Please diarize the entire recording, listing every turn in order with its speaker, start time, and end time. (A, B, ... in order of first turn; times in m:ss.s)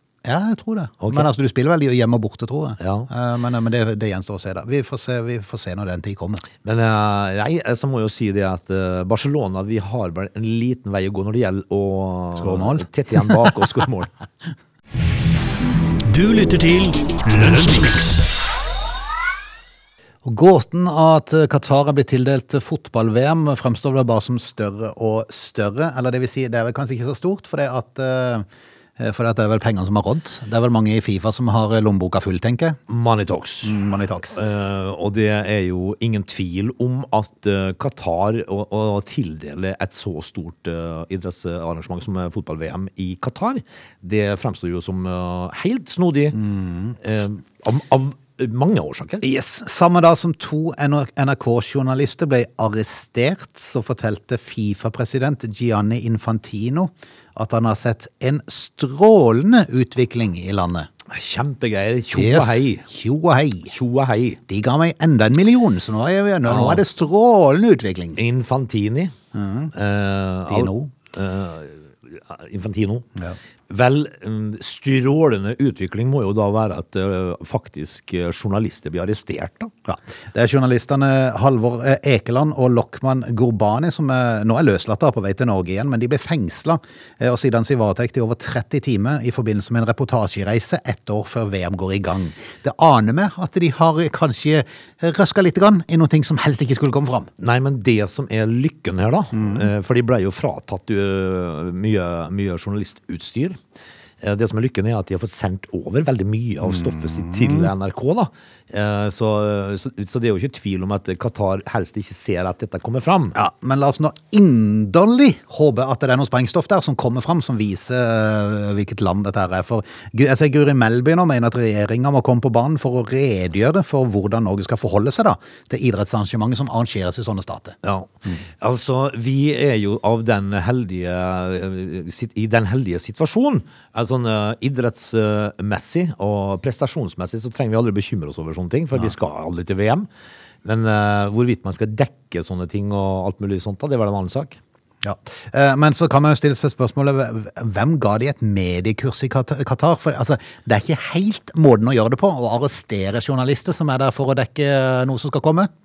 0:00.2-0:06.4 A
0:01.0-0:01.3 B
0:02.8-0:03.1 B
0:06.6-0:14.1 B
0:12.4-0:13.6 A
0:16.1-0:18.3 C
0:20.2-0:28.4 A
0:29.0-0:32.8 A
0:32.9-0:33.8 B
0:33.6-0:34.4 A
0:34.3-0:46.4 B
0:46.3-0:47.0 A
0:47.0-0:49.2 B
0:49.2-1:00.9 A
1:01.1-1:02.9 B
1:02.1-1:03.7 A
1:03.7-1:04.4 B
1:04.5-1:08.2 A
1:06.5-1:06.8 B
1:08.2-1:09.1 B
1:09.3-1:09.7 A
1:09.7-1:13.1 B
1:10.5-1:10.9 A
1:13.7-1:19.7 B
1:19.9-1:37.3 A
1:37.4-1:43.6 B
1:39.3-1:39.7 A
1:44.2-1:53.4 B
1:46.6-1:47.7 A
1:53.3-2:07.8 A
2:07.8-2:20.1 B
2:20.6-2:24.6 B
2:25.0-2:35.7 A